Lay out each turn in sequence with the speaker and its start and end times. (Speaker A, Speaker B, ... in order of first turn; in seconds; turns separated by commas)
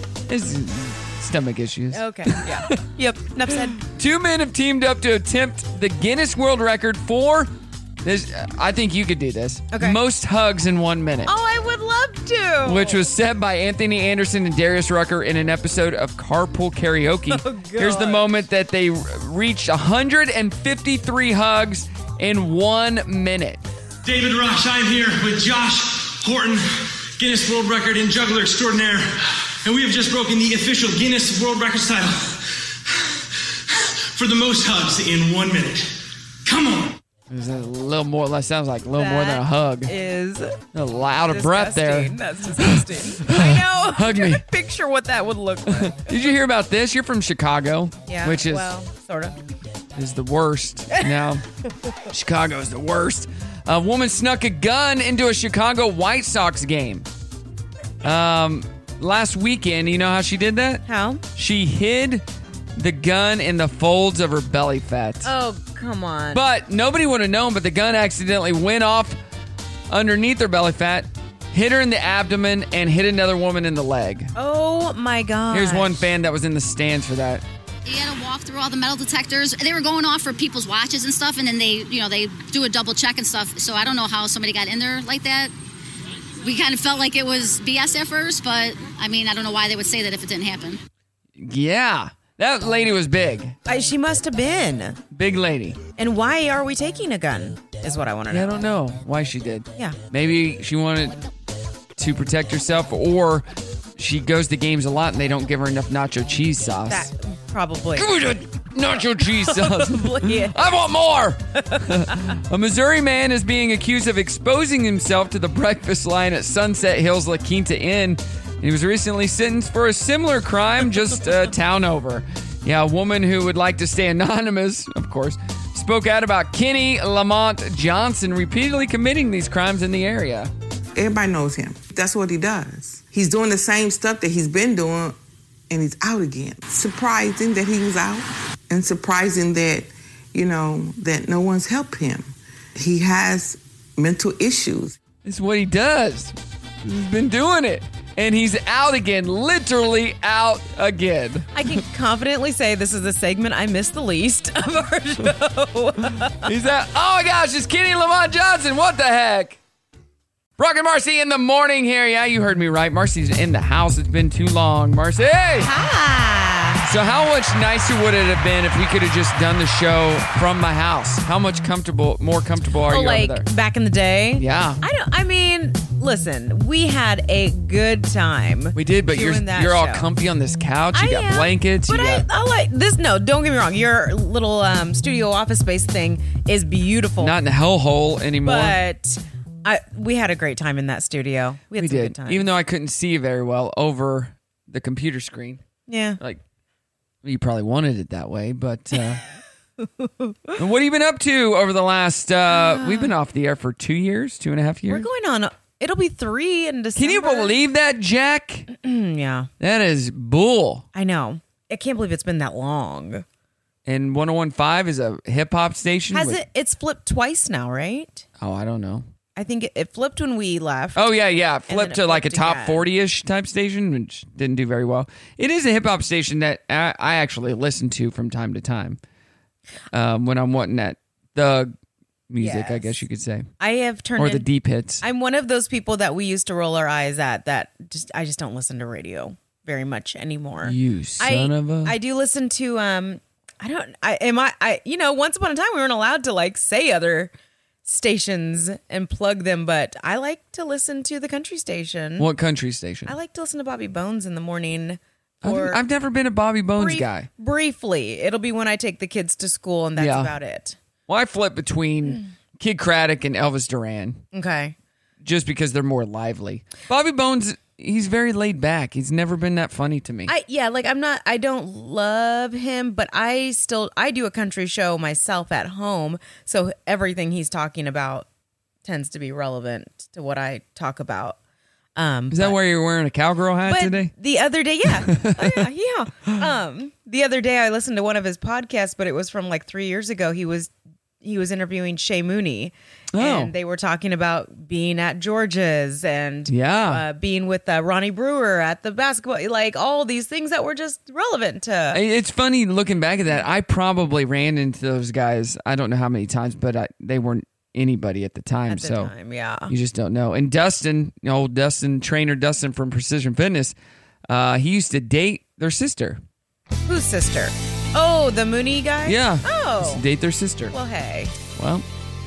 Speaker A: 0.3-2.8, Speaker B: 1.9-3.8, Speaker A: 3.7-7.5, Speaker A: 8.0-11.3, Speaker B: 9.7-10.0, Speaker B: 11.3-13.1, Speaker A: 12.6-23.6, Speaker B: 17.3-18.4, Speaker C: 24.0-26.6, Speaker C: 27.2-29.1, Speaker C: 29.6-35.9, Speaker C: 36.5-37.0, Speaker A: 37.3-39.9, Speaker B: 38.9-40.6, Speaker A: 40.7-44.4, Speaker B: 41.3-46.1, Speaker A: 45.7-48.7, Speaker B: 48.1-49.4, Speaker A: 50.0-51.4, Speaker A: 52.1-57.1, Speaker A: 58.0-62.2, Speaker B: 60.9-61.2, Speaker A: 62.8-65.3, Speaker B: 65.2-66.4, Speaker A: 66.3-69.2, Speaker A: 69.9-74.3, Speaker B: 74.4-76.1, Speaker A: 75.5-77.4, Speaker D: 77.8-85.5, Speaker D: 86.4-90.8, Speaker A: 91.4-93.6, Speaker B: 93.7-95.0, Speaker A: 95.1-95.8, Speaker B: 96.0-98.6, Speaker A: 98.3-101.2, Speaker A: 102.0-107.1, Speaker B: 106.9-108.1, Speaker A: 107.9-130.5, Speaker B: 109.3-110.6, Speaker B: 111.6-112.3, Speaker E: 131.0-135.2, Speaker E: 135.7-145.0, Speaker A: 145.2-151.5, Speaker B: 151.6-156.4, Speaker A: 156.4-159.6, Speaker A: 160.6-165.7, Speaker B: 165.6-166.8, Speaker A: 166.8-173.5, Speaker B: 172.9-180.1, Speaker A: 174.4-174.8, Speaker A: 178.8-182.3, Speaker B: 180.9-187.4, Speaker A: 187.2-188.8, Speaker B: 188.4-192.5, Speaker A: 191.8-195.6, Speaker B: 195.9-196.2, Speaker A: 197.2-199.2, Speaker B: 199.8-200.6, Speaker A: 200.6-205.1, Speaker B: 202.5-203.1, Speaker B: 204.9-207.6, Speaker A: 207.0-208.7, Speaker B: 208.7-209.5, Speaker A: 209.6-210.8, Speaker B: 210.9-213.2, Speaker A: 213.9-216.4, Speaker B: 216.1-218.2, Speaker A: 218.4-219.1, Speaker B: 219.4-221.0, Speaker A: 220.9-229.0, Speaker B: 221.7-222.9, Speaker A: 229.9-231.8, Speaker A: 232.3-233.5, Speaker B: 232.4-233.0, Speaker B: 233.6-234.5, Speaker A: 234.2-235.0, Speaker B: 235.0-247.3, Speaker A: 240.6-242.0, Speaker B: 247.8-252.3, Speaker A: 252.2-253.1, Speaker B: 253.1-255.8, Speaker A: 255.4-257.3, Speaker B: 256.8-260.8, Speaker A: 260.0-260.4, Speaker A: 261.1-264.2, Speaker B: 264.3-264.8, Speaker A: 265.2-270.3, Speaker B: 270.3-278.3, Speaker B: 278.9-281.4, Speaker B: 282.0-282.6, Speaker A: 282.3-284.1, Speaker B: 283.7-290.7, Speaker A: 284.9-285.7, Speaker B: 291.2-302.0, Speaker A: 293.1-293.5, Speaker A: 296.5-297.0, Speaker A: 301.9-309.1, Speaker B: 308.7-309.7, Speaker A: 309.7-313.8, Speaker A: 314.3-316.2, Speaker B: 316.9-320.0, Speaker A: 319.1-320.7, Speaker B: 320.7-321.3, Speaker A: 321.6-321.9